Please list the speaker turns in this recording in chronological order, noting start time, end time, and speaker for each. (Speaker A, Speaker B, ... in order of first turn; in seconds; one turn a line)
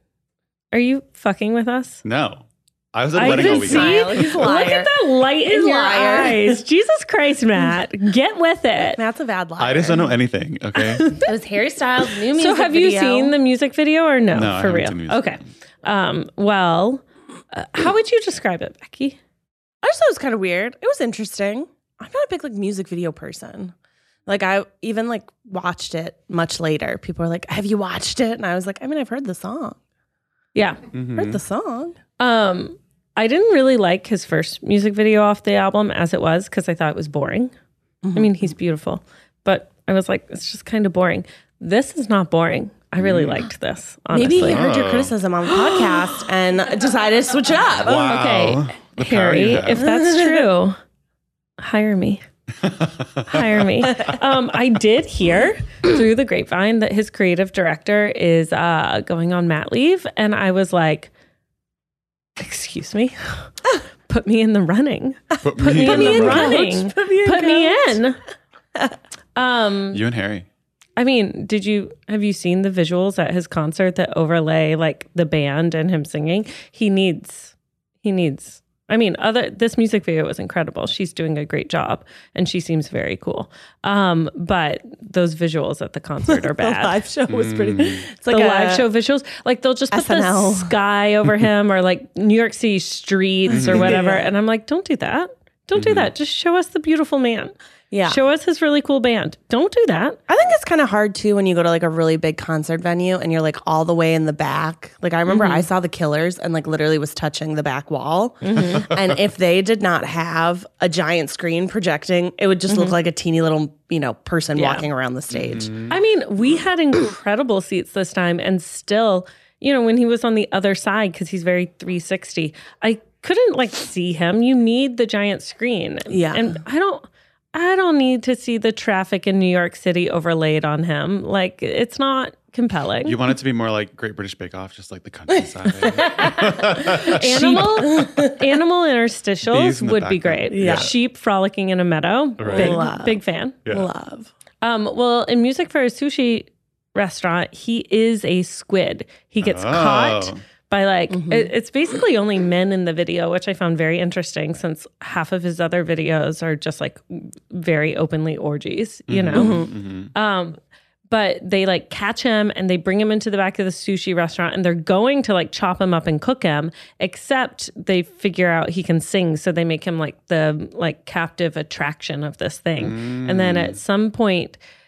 Speaker A: 0.7-2.0
Speaker B: 2.0-4.4
Speaker A: 3.1-9.0
Speaker C: 3.2-6.6
Speaker C: 9.0-10.1
Speaker B: 9.6-11.2
Speaker A: 11.0-11.2
Speaker C: 11.1-13.3
Speaker A: 12.3-19.2
Speaker B: 14.3-15.4
Speaker C: 19.8-23.7
Speaker C: 24.3-29.8
Speaker A: 30.5-30.8
Speaker B: 30.9-31.4
Speaker C: 31.1-32.0
Speaker A: 32.2-37.5
Speaker C: 38.0-38.3
Speaker A: 38.1-44.6
Speaker B: 43.0-43.4
Speaker C: 44.1-48.1
Speaker B: 44.4-45.1
Speaker A: 45.5-46.2
Speaker B: 47.8-49.9
Speaker A: 47.9-50.8
Speaker C: 49.8-50.5
Speaker A: 51.6-52.2
Speaker B: 52.6-54.0
Speaker A: 53.3-61.1
Speaker A: 62.4-63.4
Speaker A: 64.1-68.2
Speaker B: 65.4-66.6
Speaker C: 65.6-68.0
Speaker A: 69.3-70.0
Speaker B: 69.9-70.5
Speaker A: 71.0-87.0
Speaker C: 86.3-88.8
Speaker B: 87.3-88.0
Speaker A: 88.3-97.5
Speaker C: 89.9-90.7
Speaker C: 93.5-94.3
Speaker B: 93.5-94.0
Speaker B: 95.7-96.1
Speaker C: 97.9-98.2
Speaker A: 98.0-100.2
Speaker C: 100.3-115.7
Speaker A: 105.3-105.7
Speaker A: 108.4-108.9
Speaker A: 112.7-113.0
Speaker A: 114.5-114.9
Speaker B: 115.3-115.9
Speaker A: 115.9-133.2
Speaker C: 126.1-126.6
Speaker B: 133.0-137.9
Speaker C: 135.8-138.4
Speaker A: 136.7-143.6
Speaker B: 139.5-140.9
Speaker C: 140.5-140.9
Speaker B: 142.4-142.8
Speaker C: 142.5-144.3
Speaker A: 144.6-160.6
Speaker B: 149.4-150.4
Speaker C: 151.1-151.5
Speaker B: 159.1-160.1
Speaker C: 159.3-159.7
Speaker A: 161.1-174.6
Speaker B: 172.8-173.8